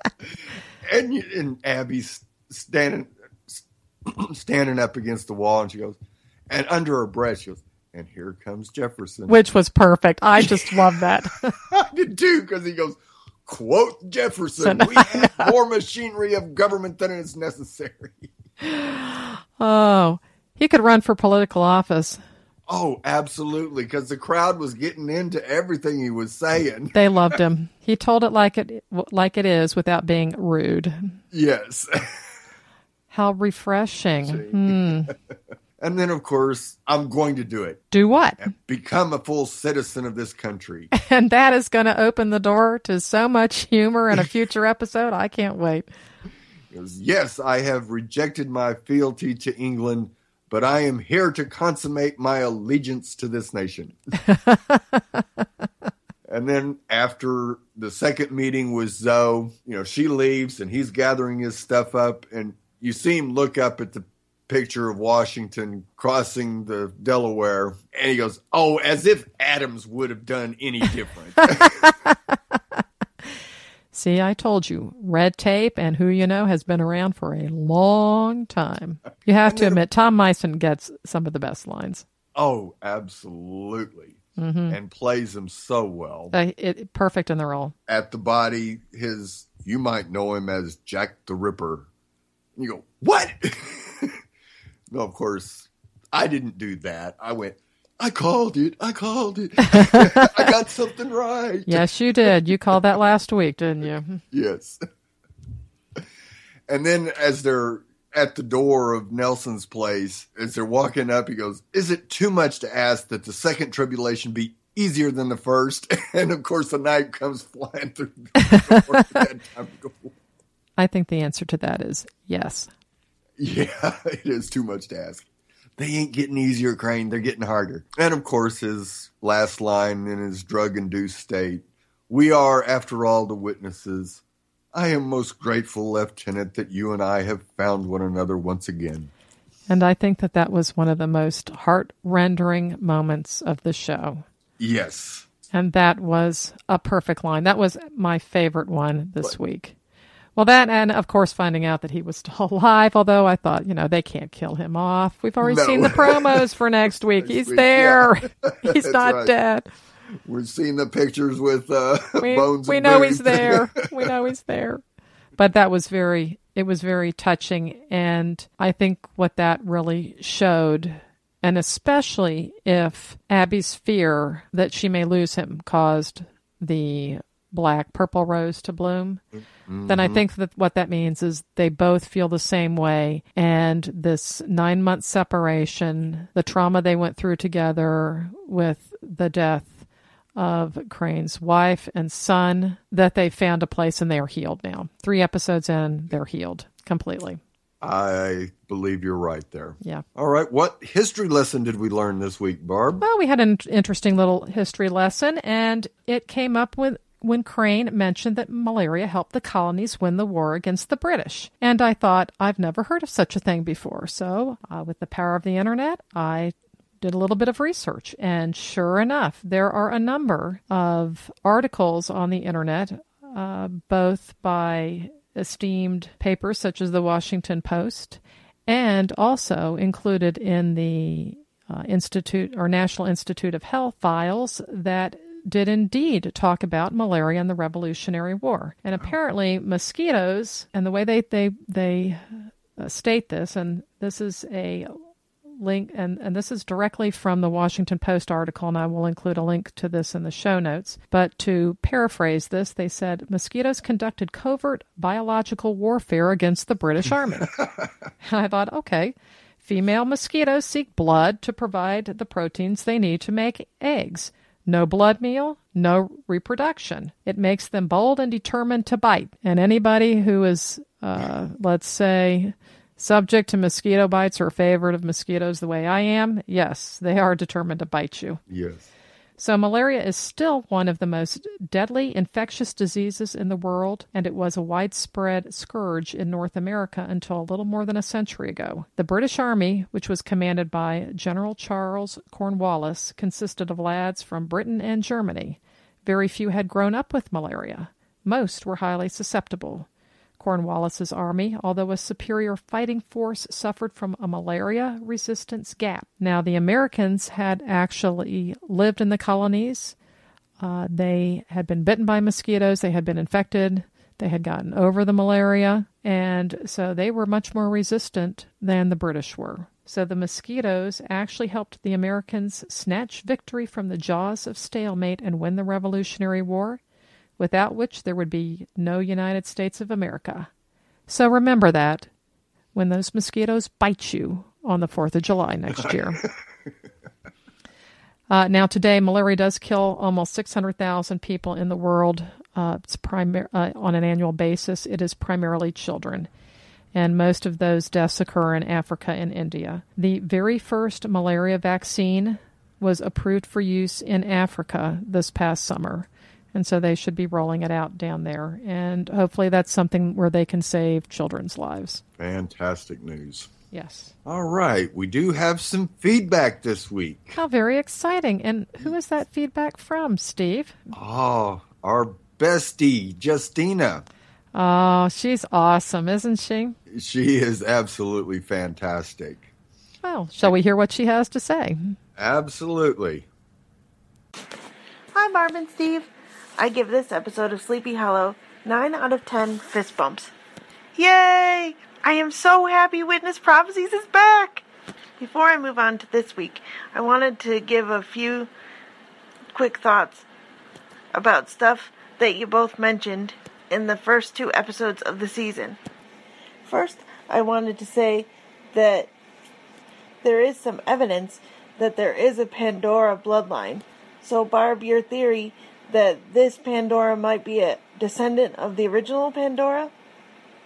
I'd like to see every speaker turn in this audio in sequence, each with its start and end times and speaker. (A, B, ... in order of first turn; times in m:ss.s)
0:00.8-0:09.4 A
0:09.3-0:11.6 B
0:10.4-0:10.8 A
0:11.6-0:18.3 A
0:14.6-0:15.5 B
0:18.6-0:22.2 B
0:22.7-0:27.4 A
0:26.9-0:31.2 B
0:31.3-0:32.3 A
0:33.1-0:35.1 B
0:34.3-0:35.2 A
0:35.8-0:37.8 A
0:37.9-0:38.5 B
0:38.4-0:40.9 A
0:40.9-0:45.9 B
0:46.7-0:54.0 A
0:54.3-0:54.8 B
0:56.3-1:11.8 A
1:11.6-1:12.8 B
1:13.9-1:22.0 B
1:19.4-1:19.8 A
1:22.4-1:26.4 A
1:24.4-1:24.8 B
1:26.3-1:27.7 B
1:27.9-1:31.9 A
1:32.6-1:34.2 A
1:34.9-1:42.5 A
1:39.7-1:40.4 B
1:41.7-1:44.2 B
1:44.3-1:44.8 A
1:46.7-2:00.1 A
1:58.4-1:59.2 B
2:00.8-2:02.7 B
2:03.4-2:05.2 A
2:05.8-2:14.2 A
2:14.7-2:19.1 A
2:19.7-2:24.2 B
2:24.6-2:25.3 A
2:25.5-2:29.8 B
2:30.4-2:39.7 B
2:35.4-2:36.5 A
2:37.2-2:39.3 A
2:40.2-2:44.1 A
2:42.2-2:44.8 B
2:45.4-2:59.2 B
2:59.7-3:00.2 A
2:59.9-3:17.4 B
3:17.8-3:23.0 A
3:23.0-4:05.0 B
4:05.6-4:17.6 B
4:18.2-4:38.4 B
4:38.5-4:38.9 A
4:39.4-4:59.9 B
5:00.4-5:10.0 B
5:10.6-5:26.8 B
5:27.4-5:30.5 B
5:31.1-5:32.1 B
5:32.7-5:36.2 B
5:35.8-5:36.3 A
5:38.3-5:46.3 B
5:46.9-6:02.0 B
6:02.2-6:03.5 A
6:03.7-6:04.1 B
6:04.2-6:07.4 A
6:07.4-6:10.8 B
6:10.9-6:14.0 A
6:14.5-6:16.8 B
6:16.9-6:19.5 A
6:20.0-6:22.0 B
6:22.2-6:23.3 A
6:25.1-6:30.3 C
6:31.0-6:34.6 C
6:35.2-6:38.5 C
6:39.5-6:40.2 C
6:41.1-6:45.8 C
6:46.6-6:49.1 C
6:50.2-6:59.9 C